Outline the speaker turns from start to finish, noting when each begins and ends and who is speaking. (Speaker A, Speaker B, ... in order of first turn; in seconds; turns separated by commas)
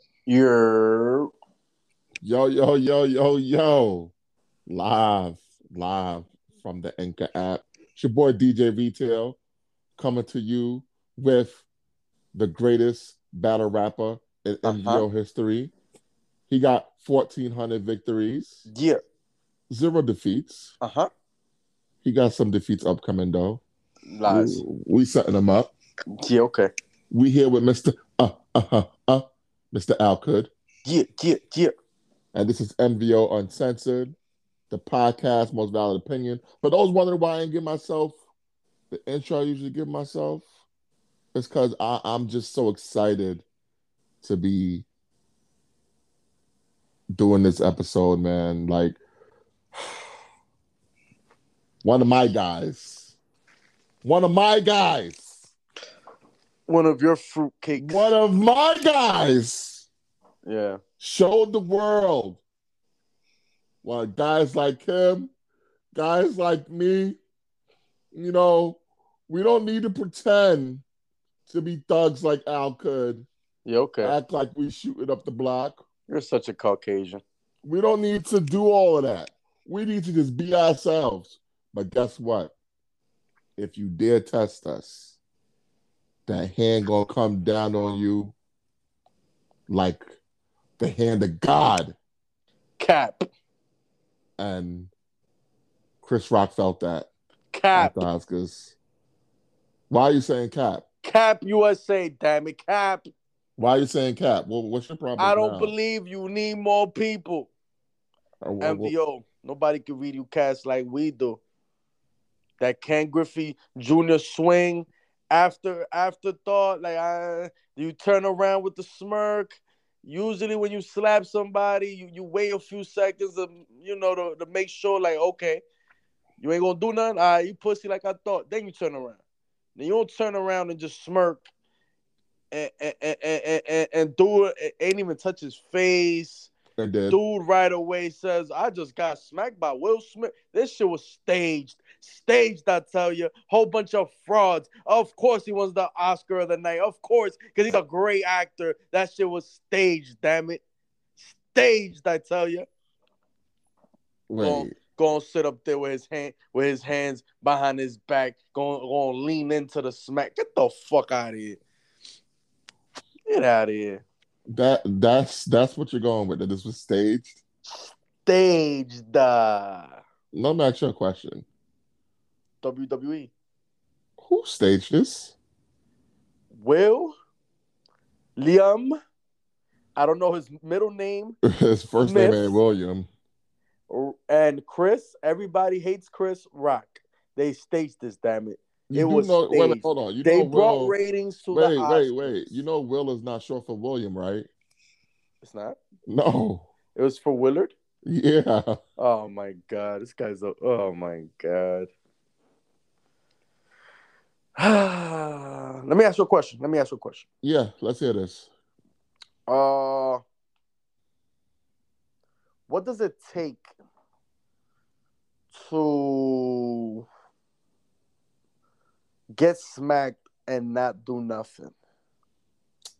Speaker A: 0.3-1.3, Speaker B: 2.2-4.1, Speaker B: 4.7-9.4, Speaker B: 10.0-11.7, Speaker B: 12.3-15.7, Speaker A: 14.6-15.1, Speaker B: 16.5-18.7, Speaker A: 18.7-19.0, Speaker B: 19.7-20.8, Speaker A: 20.8-21.1, Speaker B: 22.0-23.6, Speaker A: 24.1-24.6, Speaker B: 24.3-25.7, Speaker A: 26.1-26.7, Speaker B: 27.1-30.5, Speaker A: 30.9-31.7, Speaker B: 32.3-34.1, Speaker B: 34.7-38.2, Speaker B: 38.9-40.5, Speaker B: 41.3-43.4, Speaker B: 44.2-44.9, Speaker B: 47.1-49.0, Speaker B: 51.8-53.2, Speaker B: 54.0-55.5, Speaker A: 56.7-58.1, Speaker B: 57.8-59.9, Speaker A: 60.5-60.8, Speaker B: 61.0-62.4, Speaker B: 63.8-65.3, Speaker B: 65.9-67.2, Speaker B: 68.1-70.8, Speaker B: 71.5-73.3, Speaker A: 73.7-74.2, Speaker B: 74.0-75.8, Speaker A: 76.1-77.2, Speaker B: 77.6-82.5, Speaker B: 83.6-85.2, Speaker B: 86.3-88.3, Speaker B: 89.7-90.1, Speaker B: 90.8-92.0, Speaker A: 92.8-93.3, Speaker B: 94.4-94.9, Speaker B: 96.0-97.1, Speaker A: 97.5-98.1, Speaker B: 97.8-98.8, Speaker B: 99.9-100.8, Speaker A: 101.0-103.1, Speaker B: 103.6-105.7, Speaker A: 105.2-107.5, Speaker B: 108.4-108.9, Speaker A: 108.6-111.4, Speaker A: 112.6-125.6, Speaker A: 126.4-129.2, Speaker A: 129.8-131.5, Speaker A: 132.5-136.5, Speaker B: 136.8-137.2, Speaker A: 137.1-150.6, Speaker A: 151.2-152.7, Speaker B: 154.3-154.8, Speaker A: 154.4-161.6, Speaker A: 163.3-164.0, Speaker B: 164.5-167.4, Speaker A: 168.3-170.0, Speaker B: 170.3-171.4, Speaker A: 172.6-173.3, Speaker B: 174.2-175.3, Speaker A: 176.5-177.1, Speaker A: 178.4-179.0, Speaker A: 180.0-181.4, Speaker B: 181.4-183.1, Speaker A: 182.0-182.6, Speaker A: 183.9-192.6, Speaker B: 188.9-190.9, Speaker B: 191.5-194.5, Speaker A: 195.4-195.8, Speaker B: 196.1-196.7, Speaker A: 196.9-197.7, Speaker B: 198.0-198.8, Speaker A: 199.0-201.9, Speaker A: 204.6-207.3, Speaker B: 207.4-208.5, Speaker A: 209.5-210.2, Speaker A: 212.7-213.8, Speaker A: 215.5-217.0, Speaker A: 219.3-221.7